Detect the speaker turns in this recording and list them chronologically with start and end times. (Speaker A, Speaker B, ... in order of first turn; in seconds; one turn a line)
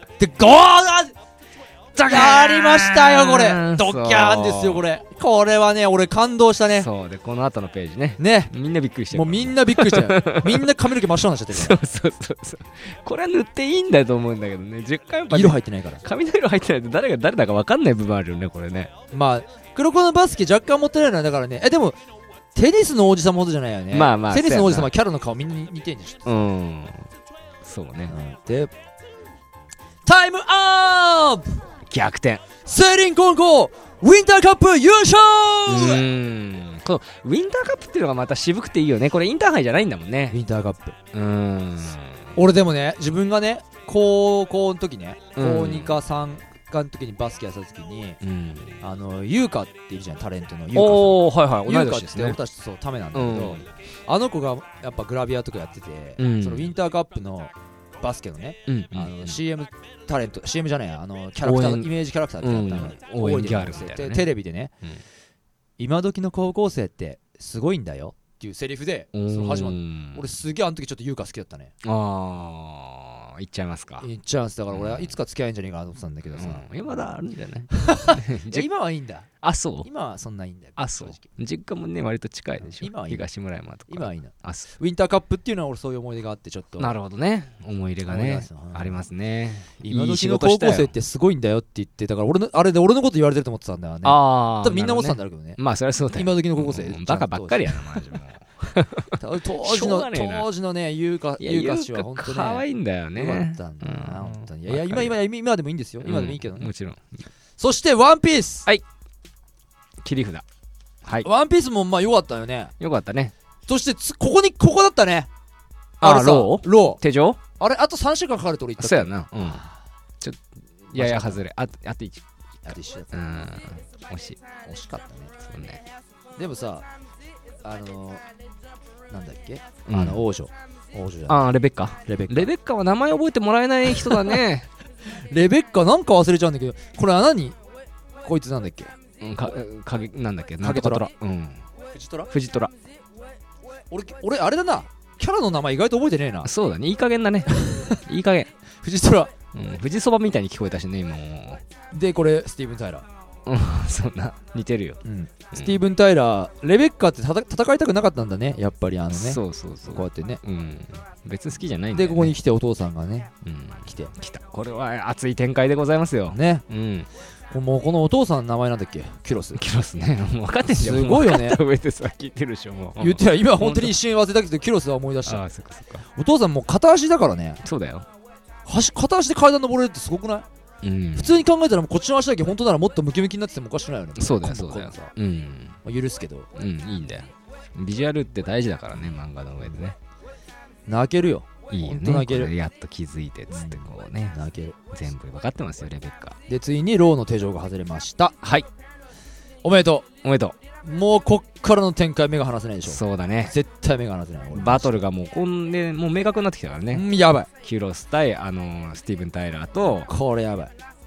Speaker A: 0.2-1.1
Speaker B: 1.9-4.9
Speaker A: 2.0-6.9
Speaker B: 6.7-10.9
Speaker A: 8.2-8.5
Speaker A: 9.1-11.8
Speaker B: 11.5-18.9
Speaker A: 15.3-16.0
Speaker A: 19.1-22.0
Speaker A: 22.5-26.3
Speaker B: 23.9-24.9
Speaker B: 26.3-27.1
Speaker B: 27.6-28.1
Speaker A: 28.1-28.7
Speaker A: 30.1-31.6
Speaker B: 31.9-32.4
Speaker A: 32.6-36.0
Speaker B: 35.7-40.4
Speaker A: 40.3-41.0
Speaker B: 41.1-42.4
Speaker A: 42.4-48.2
Speaker B: 45.4-46.0
Speaker B: 48.2-48.8
Speaker A: 48.8-64.7
Speaker B: 50.7-52.4
Speaker B: 53.1-53.6
Speaker B: 56.2-56.7
Speaker B: 58.7-59.4
Speaker B: 61.4-64.3
Speaker A: 65.8-71.7
Speaker B: 69.1-70.2
Speaker B: 71.8-74.1
Speaker A: 74.0-77.0
Speaker B: 74.7-75.2
Speaker B: 76.3-78.7
Speaker A: 77.7-79.3
Speaker B: 79.4-79.9
Speaker A: 79.8-81.3
Speaker B: 80.8-84.7
Speaker A: 82.6-83.2
Speaker A: 83.9-86.9
Speaker B: 86.8-90.9
Speaker A: 88.1-89.0
Speaker A: 89.8-95.6
Speaker B: 94.0-100.5
Speaker A: 96.1-98.0
Speaker A: 99.2-106.7
Speaker B: 101.4-105.2
Speaker B: 106.0-107.2
Speaker A: 107.6-108.7
Speaker B: 110.0-110.4
Speaker A: 111.2-112.7
Speaker B: 112.8-113.3
Speaker A: 113.7-115.3
Speaker B: 116.0-117.4
Speaker A: 116.0-117.0
Speaker A: 117.6-119.8
Speaker B: 118.8-119.6
Speaker B: 120.2-122.2
Speaker A: 121.0-121.4
Speaker A: 122.7-123.5
Speaker B: 123.1-124.4
Speaker A: 124.7-125.3
Speaker B: 125.4-125.8
Speaker A: 126.4-126.9
Speaker A: 127.6-128.2
Speaker A: 129.1-131.5
Speaker B: 129.9-130.2
Speaker B: 131.3-134.7
Speaker A: 132.1-132.5
Speaker A: 134.0-134.4
Speaker A: 135.1-137.6
Speaker A: 138.2-138.9
Speaker B: 139.2-141.6
Speaker A: 140.6-141.1
Speaker A: 141.9-142.3
Speaker B: 142.3-142.7
Speaker A: 143.9-146.5
Speaker B: 146.4-148.5
Speaker A: 147.5-148.0
Speaker A: 148.8-149.3
Speaker B: 149.5-151.6
Speaker A: 151.9-153.1
Speaker B: 153.5-155.0
Speaker A: 155.0-160.4
Speaker B: 155.5-155.8
Speaker B: 159.1-162.4
Speaker A: 161.9-163.3
Speaker B: 163.4-167.1
Speaker A: 163.9-164.1
Speaker A: 166.3-166.6
Speaker A: 167.5-169.6
Speaker B: 169.6-174.0
Speaker A: 170.7-171.6
Speaker A: 173.0-175.4
Speaker B: 175.3-176.0
Speaker A: 176.1-177.6
Speaker B: 177.6-178.1
Speaker A: 178.7-180.5
Speaker B: 180.8-181.4
Speaker A: 181.2-185.1
Speaker B: 184.2-185.8
Speaker A: 185.8-186.5
Speaker B: 186.6-190.0
Speaker A: 190.9-192.5
Speaker B: 191.7-194.3
Speaker A: 193.5-194.8
Speaker B: 194.9-196.4
Speaker A: 196.5-198.3
Speaker B: 198.4-198.7
Speaker A: 199.6-200.1
Speaker B: 200.2-200.6
Speaker A: 200.8-205.0
Speaker B: 202.9-203.5
Speaker B: 204.5-207.1
Speaker A: 206.9-207.5
Speaker B: 207.6-210.1
Speaker A: 210.1-210.7